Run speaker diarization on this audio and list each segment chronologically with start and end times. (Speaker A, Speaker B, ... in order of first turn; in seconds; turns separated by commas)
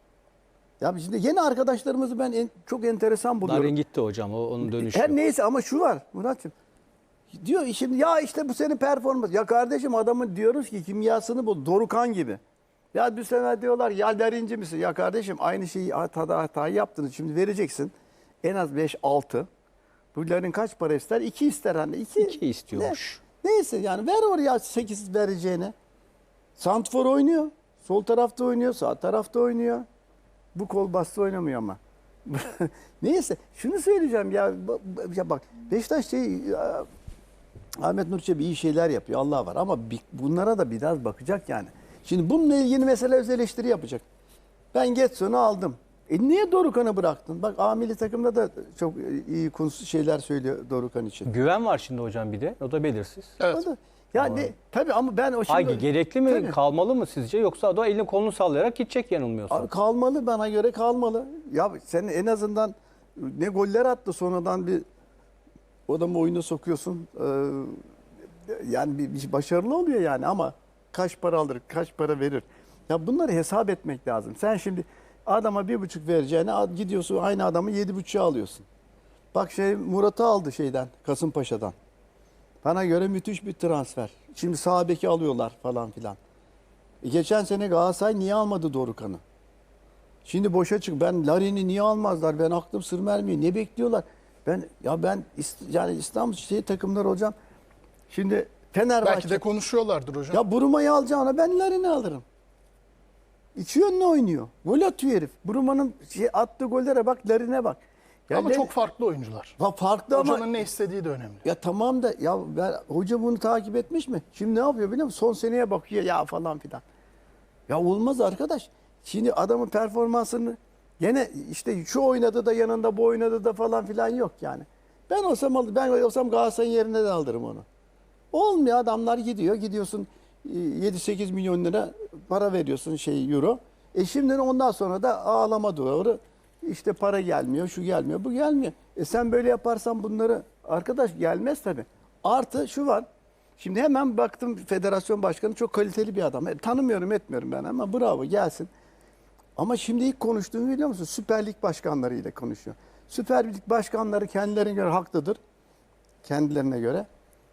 Speaker A: 0.8-3.7, Speaker B: 3.4-5.2, Speaker A: 4.6-6.5, Speaker A: 7.3-12.4, Speaker A: 12.9-19.5, Speaker A: 20.1-25.7, Speaker B: 22.2-23.2, Speaker A: 26.6-29.8, Speaker A: 30.6-36.9, Speaker A: 37.8-44.0, Speaker A: 44.7-51.3, Speaker B: 51.2-53.4, Speaker A: 53.5-56.6, Speaker B: 54.2-54.5, Speaker B: 55.5-59.7, Speaker A: 59.5-64.8, Speaker A: 65.9-67.8, Speaker A: 68.5-78.6, Speaker A: 79.3-81.7, Speaker A: 82.6-86.2, Speaker A: 87.0-89.2, Speaker A: 90.2-97.3, Speaker A: 98.1-99.4, Speaker C: 99.0-100.4, Speaker A: 100.3-102.2, Speaker A: 103.6-108.7, Speaker C: 108.3-109.5, Speaker A: 109.6-110.4, Speaker C: 110.1-111.4, Speaker A: 111.4-116.8, Speaker A: 117.7-127.7, Speaker A: 128.3-143.1, Speaker A: 143.6-148.7, Speaker A: 149.6-155.4, Speaker A: 156.2-157.1